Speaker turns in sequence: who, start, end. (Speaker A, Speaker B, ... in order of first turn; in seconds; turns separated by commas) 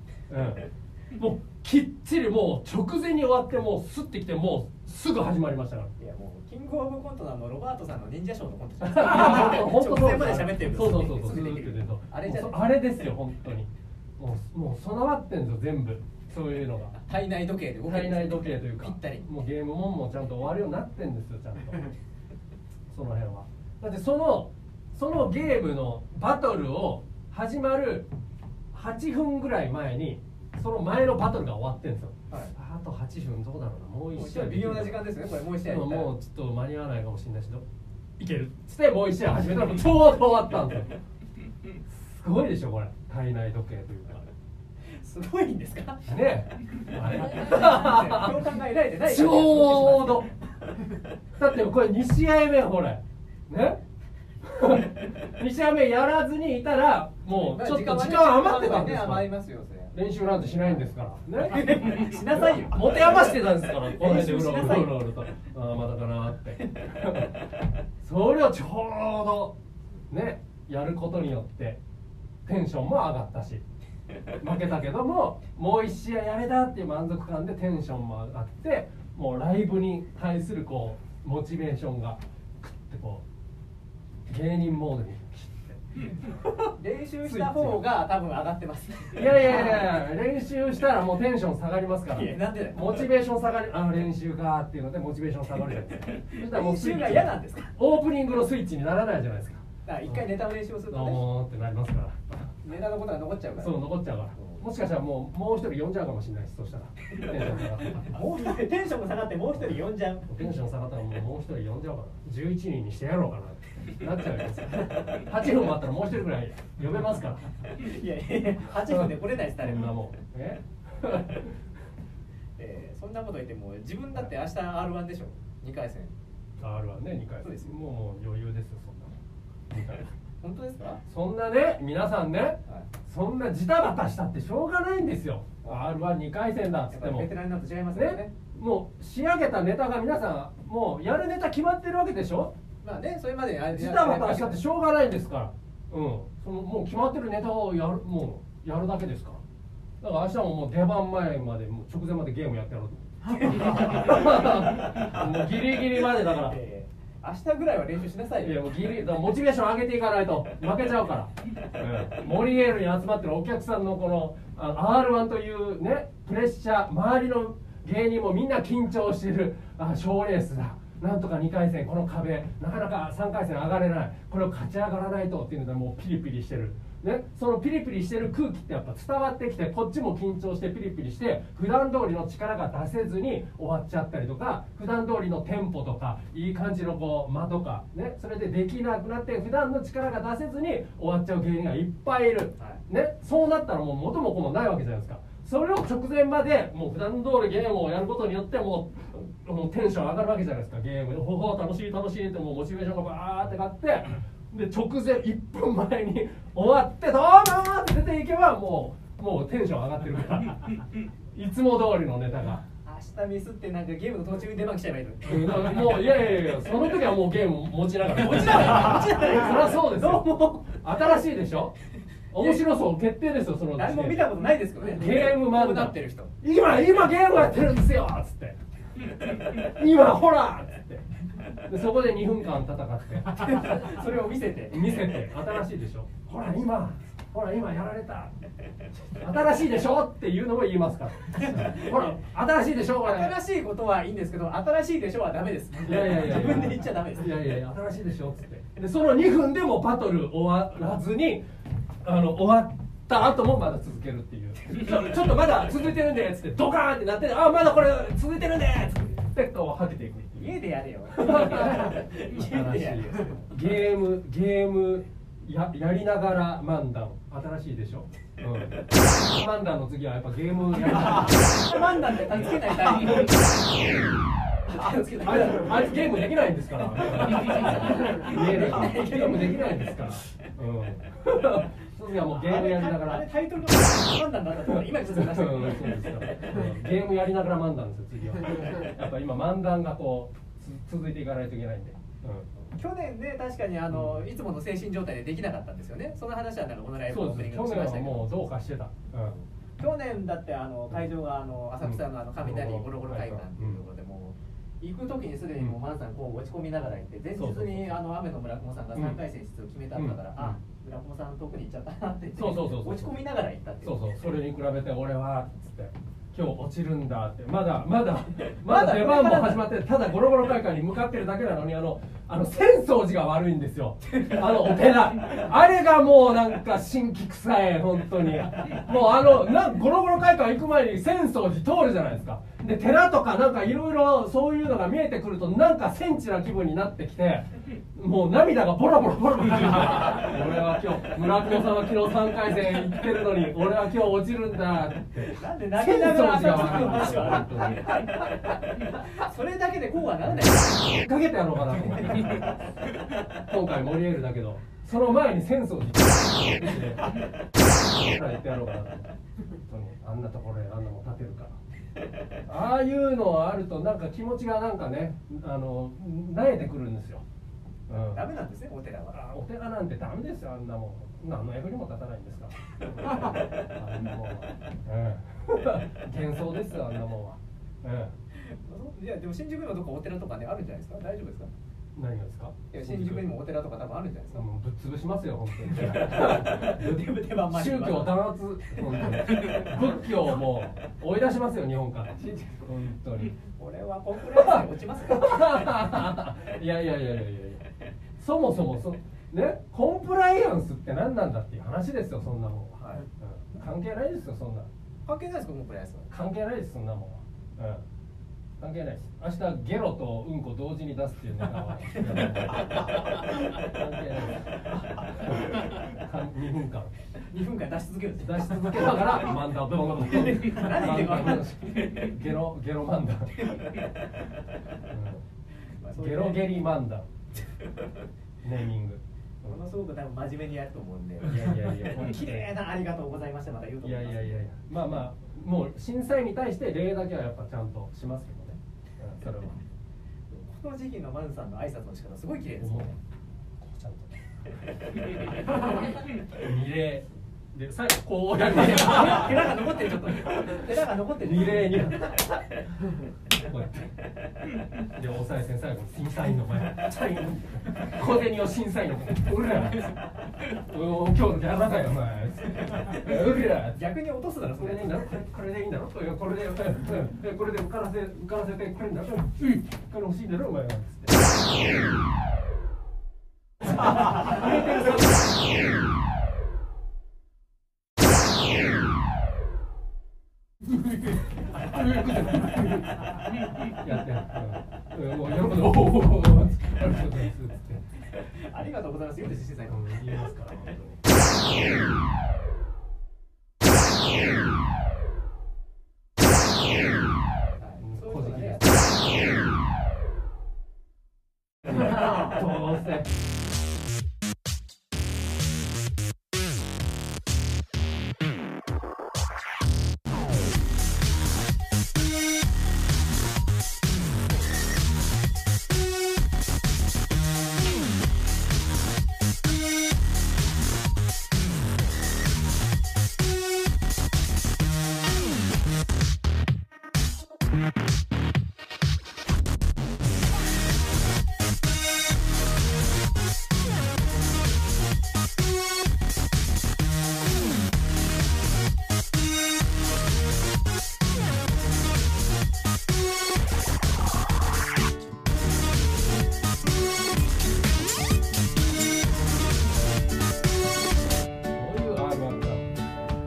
Speaker A: 0.3-5.9, Speaker B: 6.0-12.7, Speaker A: 8.8-16.9, Speaker B: 17.0-19.3, Speaker A: 17.9-21.9, Speaker A: 22.9-28.1, Speaker A: 28.7-35.1, Speaker B: 34.1-36.1, Speaker A: 35.6-37.6, Speaker A: 38.2-41.0, Speaker A: 41.9-44.2, Speaker B: 45.0-46.0, Speaker A: 46.1-48.5, Speaker B: 47.2-50.2, Speaker A: 49.0-50.3, Speaker A: 51.4-53.8, Speaker A: 54.4-59.3, Speaker B: 57.3-59.9, Speaker A: 59.9-61.8, Speaker B: 61.5-65.0, Speaker A: 62.4-67.4, Speaker A: 68.0-69.5, Speaker A: 70.1-71.8, Speaker A: 72.5-73.6, Speaker A: 74.4-83.2, Speaker A: 84.3-86.7, Speaker B: 86.8-89.9, Speaker A: 87.2-87.8, Speaker A: 89.1-100.2, Speaker B: 92.1-93.1, Speaker B: 96.3-97.7, Speaker B: 99.8-101.2, Speaker A: 100.9-102.5, Speaker B: 102.6-104.6, Speaker A: 103.6-108.2, Speaker B: 108.0-110.3, Speaker A: 110.3-117.5, Speaker B: 117.6-120.0, Speaker A: 118.9-121.5, Speaker B: 122.6-126.1, Speaker A: 126.6-129.2, Speaker B: 127.4-127.7, Speaker A: 129.7-130.1, Speaker B: 130.4-131.0, Speaker A: 131.1-137.3, Speaker B: 135.6-135.9, Speaker B: 136.9-138.3, Speaker A: 137.9-142.5, Speaker B: 142.8-144.6, Speaker A: 143.7-149.4, Speaker A: 150.0-156.6, Speaker B: 156.3-158.7, Speaker A: 158.4-212.6, Speaker B: 212.8-215.9, Speaker A: 215.2-221.7, Speaker B: 218.2-220.7, Speaker A: 222.3-228.6, Speaker B: 222.4-222.6, Speaker B: 223.7-226.3, Speaker A: 229.2-233.7, Speaker B: 233.4-235.0, Speaker A: 234.7-238.3, Speaker A: 239.2-243.4, Speaker B: 241.3-242.2, Speaker B: 243.0-247.4, Speaker A: 245.8-251.4, Speaker A: 252.0-260.6, Speaker B: 260.4-263.7, Speaker A: 261.1-271.5, Speaker B: 271.1-273.5, Speaker B: 274.6-276.0, Speaker A: 274.6-283.2, Speaker B: 277.3-279.8, Speaker B: 282.2-286.5, Speaker A: 284.6-292.5, Speaker B: 292.6-298.5, Speaker A: 293.9-294.3, Speaker A: 297.1-299.3, Speaker B: 299.2-314.0, Speaker A: 301.8-303.8, Speaker A: 307.3-308.0, Speaker A: 309.9-310.6, Speaker A: 312.4-313.2, Speaker A: 313.8-348.1, Speaker B: 318.5-319.7, Speaker B: 345.3-351.0, Speaker A: 350.9-352.6, Speaker B: 351.8-352.6, Speaker A: 353.4-357.2, Speaker A: 357.9-359.1, Speaker A: 359.7-361.6, Speaker A: 362.4-367.2, Speaker A: 367.9-368.2, Speaker B: 367.9-369.2, Speaker A: 369.1-378.1, Speaker B: 373.0-373.4, Speaker B: 378.4-381.5, Speaker A: 381.9-383.3, Speaker B: 382.7-384.4, Speaker A: 384.3-393.4, Speaker B: 385.7-389.7, Speaker B: 393.6-395.4, Speaker A: 394.2-397.6, Speaker A: 398.2-404.7, Speaker B: 405.1-406.1, Speaker A: 406.1-407.8, Speaker A: 408.6-416.9, Speaker B: 411.9-413.2, Speaker B: 417.2-419.2, Speaker A: 418.2-423.4, Speaker B: 420.0-422.1, Speaker B: 423.4-424.2, Speaker A: 424.9-425.2, Speaker B: 425.8-426.6, Speaker A: 425.9-427.1, Speaker A: 428.4-429.6, Speaker B: 429.4-434.4, Speaker A: 431.2-432.5, Speaker A: 433.8-439.6, Speaker B: 440.3-443.0, Speaker A: 442.6-442.9, Speaker A: 443.6-444.1, Speaker A: 445.3-449.5, Speaker B: 448.5-452.1, Speaker A: 450.3-450.7, Speaker A: 451.2-452.4, Speaker A: 453.3-453.9, Speaker A: 454.8-459.9, Speaker B: 459.7-460.0, Speaker A: 460.4-463.8, Speaker B: 462.5-465.0, Speaker A: 464.6-471.2, Speaker A: 474.1-474.9, Speaker B: 474.2-474.9, Speaker A: 481.4-487.8, Speaker B: 488.1-490.4, Speaker A: 489.6-491.0, Speaker B: 497.6-498.8, Speaker A: 497.8-498.6, Speaker A: 501.6-503.1, Speaker A: 551.5-552.8